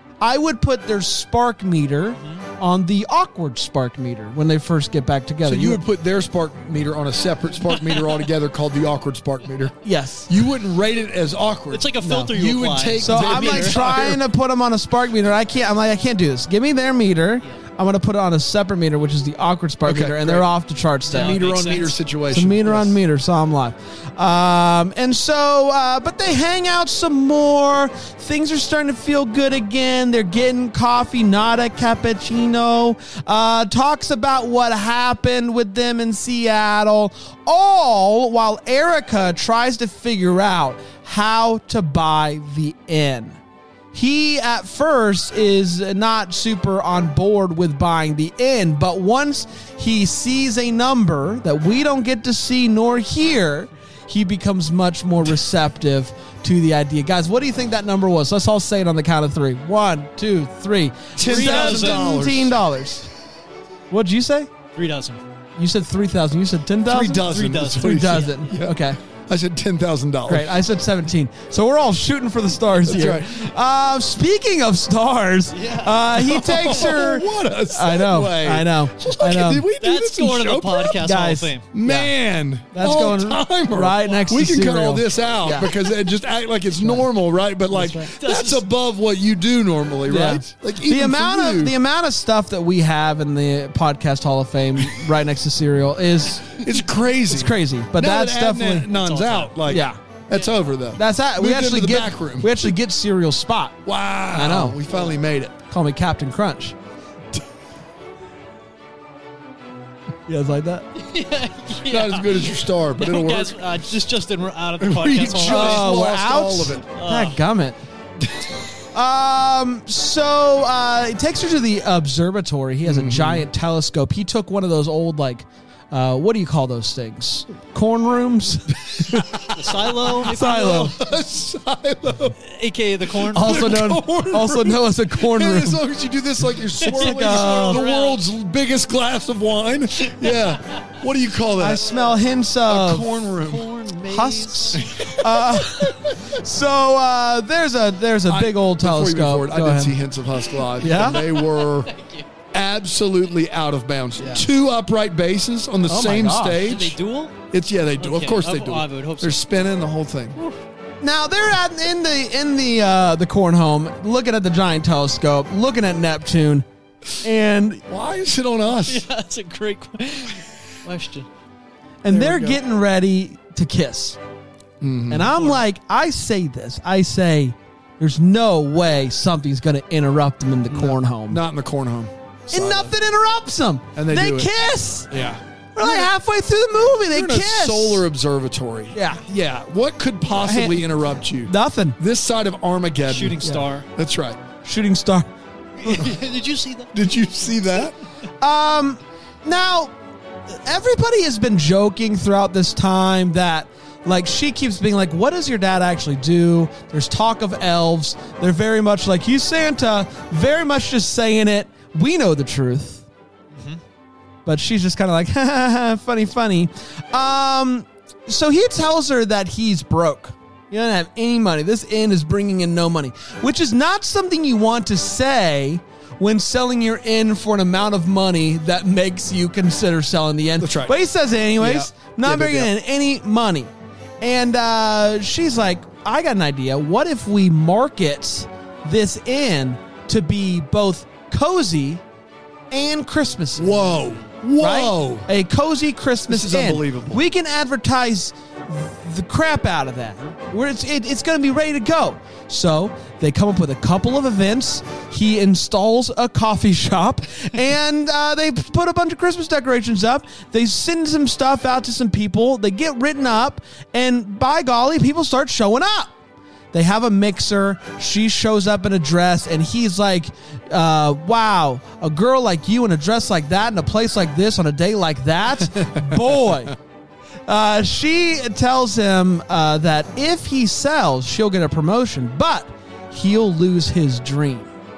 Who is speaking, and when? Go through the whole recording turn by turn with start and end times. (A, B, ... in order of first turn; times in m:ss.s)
0:00.2-0:05.8 A
0:05.4-0:14.2 B
0:07.8-0:08.2 C
0:09.8-0:10.3 A
0:11.7-0:14.0 C
0:12.0-0:12.3 A
0:13.0-0:21.4 A
0:19.9-0:20.5 B
0:21.1-0:22.0 C
0:21.1-0:23.0 B
0:22.3-0:43.4 A
0:43.9-1:03.1 A
1:01.2-1:02.6 B
1:01.2-1:02.1 C
1:03.9-1:04.5 A
1:04.7-1:05.2 C
1:05.6-1:09.0 A
1:06.9-1:10.6 B
1:07.2-1:08.3 C
1:10.3-1:19.6 A
1:12.9-1:13.4 B
1:15.5-1:16.1 C
1:16.2-1:21.1 B
1:19.8-1:22.1 C
1:21.0-1:21.5 A
1:21.7-1:31.7 B
1:22.7-1:25.7 A
1:24.0-1:24.4 C
1:26.8-1:27.1 A
1:27.7-1:28.6 C
1:27.7-1:28.1 A
1:30.1-1:36.6 A
1:36.5-1:42.7 B
1:37.3-1:38.9 A
1:38.9-1:39.6 C
1:39.7-1:40.0 A
1:41.0-1:43.8 A
1:43.8-1:45.6 B
1:44.3-1:44.8 A
1:45.7-1:46.8 A
1:50.3-1:50.9 A
1:51.0-1:56.0 C
1:51.8-1:53.7 B
1:54.8-1:56.8 B
1:55.3-1:57.8 A
1:56.8-1:57.4 C
1:58.9-2:09.5 A
2:02.8-2:03.5 B
2:09.1-2:12.4 B
2:09.5-2:10.8 C
2:10.2-2:11.0 A
2:12.4-2:13.8 C
2:13.2-2:21.9 B
2:13.3-2:15.8 A
2:16.8-2:18.2 C
2:16.8-2:17.8 A
2:21.6-2:23.1 A
2:22.7-2:23.7 B
2:23.3-2:24.9 C
2:24.1-2:30.0 A
2:24.8-2:26.2 B
2:28.3-2:31.9 B
2:30.8-2:32.3 C
2:30.8-2:31.2 A
2:32.5-2:37.0 B
2:35.9-2:36.7 A
2:36.6-2:37.4 C
2:37.5-2:40.4 B
2:38.0-2:39.6 C
2:41.0-2:46.6 A
2:47.2-2:47.8 A
2:47.9-2:49.0 B
2:48.8-2:51.3 C
2:52.0-2:54.2 A
2:52.1-2:52.6 B
2:54.8-2:55.4 B
2:55.1-3:01.4 A
2:55.4-2:55.6 C
3:00.7-3:02.9 B
3:02.5-3:05.1 A
3:04.0-3:04.5 B
3:05.1-3:06.1 B
3:05.8-3:08.0 A
3:07.1-3:14.4 B
3:08.9-3:09.2 A
3:10.4-3:10.9 A
3:11.4-3:12.0 A
3:13.1-3:13.9 C
3:14.6-3:15.3 A
3:15.8-3:16.9 C
3:15.8-3:16.1 B
3:16.9-3:18.0 B
3:18.4-3:19.9 A
3:20.5-3:33.1 A
3:33.5-3:33.8 C
3:34.5-3:53.7 A
3:50.6-3:51.0 B
3:51.6-3:52.7 B
3:54.2-4:02.0 A
4:02.7-4:04.0 A
4:03.6-4:05.3 B
4:04.6-4:26.1 A
4:06.3-4:07.2 B
4:26.7-4:36.8 A
4:35.8-4:36.1 B
4:37.5-4:44.7 A